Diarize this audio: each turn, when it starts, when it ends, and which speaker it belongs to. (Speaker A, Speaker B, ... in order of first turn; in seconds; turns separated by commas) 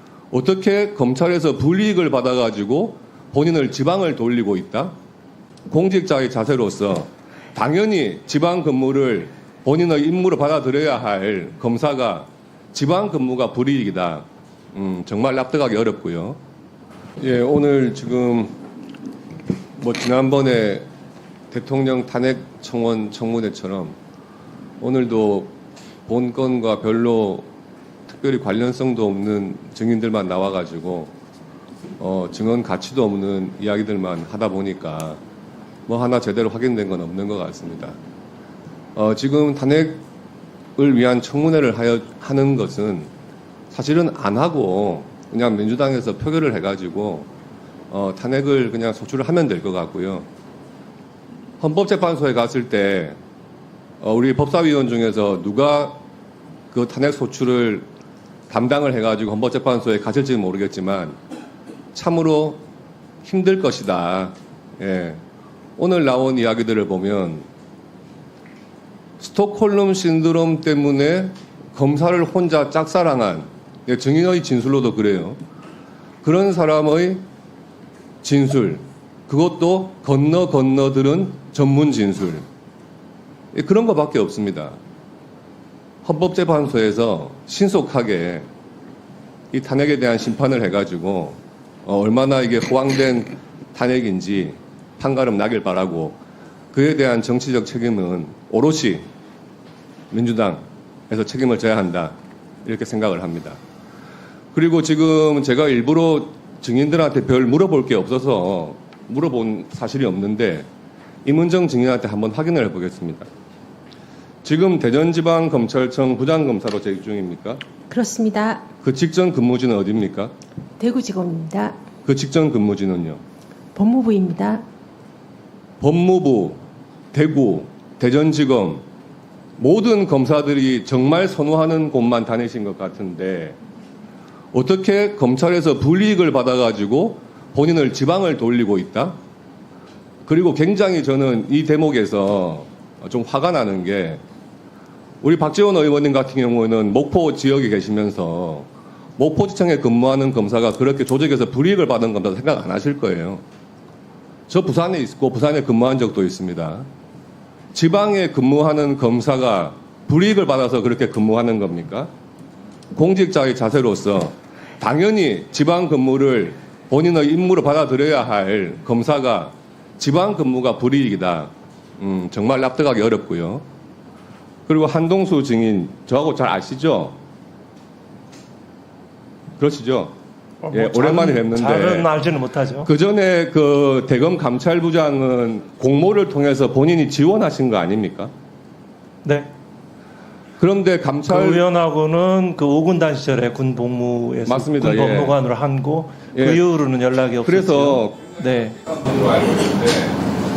Speaker A: 0.3-5.0, Speaker A: 5.7-16.4, Speaker A: 17.2-18.6, Speaker A: 19.8-20.9, Speaker A: 21.5-24.0, Speaker A: 24.8-25.5, Speaker A: 26.1-27.5, Speaker A: 28.1-31.1, Speaker A: 32.0-35.2, Speaker A: 35.9-38.0, Speaker A: 39.0-40.0, Speaker A: 40.8-43.1, Speaker A: 43.7-47.3, Speaker A: 47.9-50.3, Speaker A: 51.6-53.2, Speaker A: 54.0-56.0, Speaker A: 56.7-57.9, Speaker A: 58.5-61.2, Speaker A: 61.9-62.6, Speaker A: 63.2-65.2, Speaker A: 65.8-67.5, Speaker A: 69.2-75.4, Speaker A: 76.2-77.2, Speaker A: 78.2-82.5, Speaker A: 83.5-84.8, Speaker A: 86.0-88.5, Speaker A: 89.5-96.2, Speaker A: 96.7-99.1, Speaker A: 100.1-103.6, Speaker A: 104.5-110.7, Speaker A: 111.2-113.3, Speaker A: 114.4-117.6, Speaker B: 117.9-118.7, Speaker A: 118.8-120.3, Speaker B: 120.8-121.8, Speaker A: 122.0-123.2, Speaker B: 123.8-124.6, Speaker A: 125.8-126.6, Speaker A: 127.1-128.8, Speaker A: 129.6-133.6, Speaker A: 134.5-139.2, Speaker A: 140.3-144.2, Speaker A: 145.2-153.4, Speaker A: 154.5-156.9, Speaker A: 157.7-162.1, Speaker A: 162.9-173.7, Speaker A: 174.7-177.2, Speaker A: 179.6-180.1, Speaker C: 180.6-182.9, Speaker A: 180.7-182.1, Speaker A: 182.8-188.3, Speaker C: 189.2-189.5, Speaker A: 190.6-191.7, Speaker C: 191.3-198.8, Speaker A: 194.5-195.4, Speaker A: 196.3-196.6, Speaker A: 197.4-200.2